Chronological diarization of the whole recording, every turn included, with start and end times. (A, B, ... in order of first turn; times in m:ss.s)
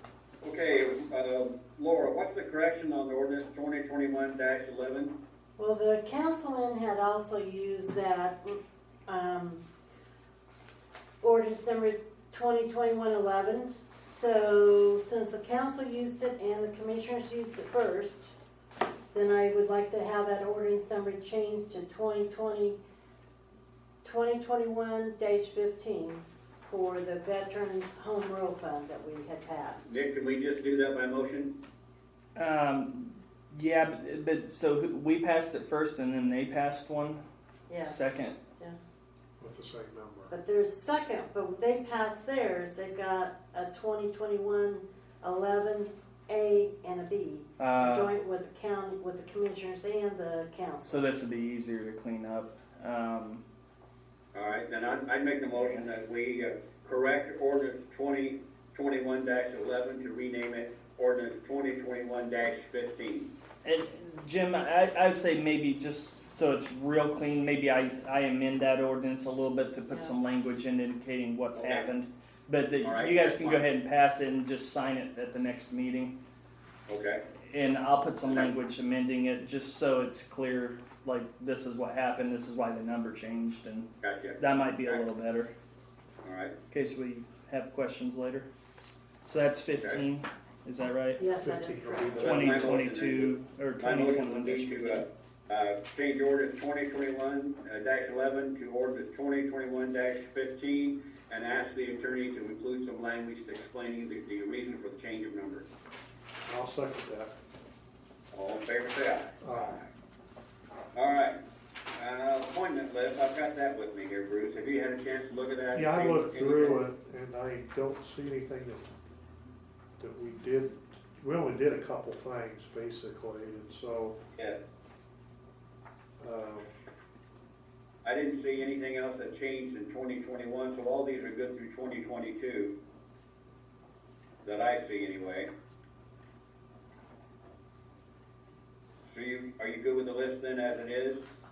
0:00.4-0:05.2 A
0:05.6-0:09.6 B
0:11.2-0:18.3 B
0:19.1-0:22.8 B
0:24.0-0:30.0 B
0:29.8-0:31.6 A
0:32.4-0:37.2 C
0:37.7-0:38.9 B
0:37.8-0:38.4 C
0:39.4-0:40.3 D
0:40.3-0:51.0 B
0:47.6-0:48.1 C
0:50.8-0:53.4 C
0:54.3-1:03.3 A
1:03.6-1:16.2 C
1:09.9-1:10.2 B
1:11.5-1:11.9 A
1:12.8-1:13.7 A
1:16.9-1:17.2 A
1:17.5-1:25.5 C
1:24.0-1:25.0 A
1:26.2-1:26.6 A
1:26.7-1:28.5 C
1:29.2-1:31.2 C
1:31.2-1:32.3 B
1:31.4-1:32.9 D
1:32.2-1:45.6 A
1:32.2-1:35.0 C
1:46.4-1:47.3 D
1:48.3-1:49.9 A
1:49.4-1:49.8 D
1:50.9-1:51.4 A
1:52.0-1:56.8 A
1:55.7-1:58.9 D
2:00.0-2:04.2 D
2:06.2-2:06.6 D
2:08.0-2:12.8 A
2:14.4-2:15.5 A
2:19.0-2:21.2 A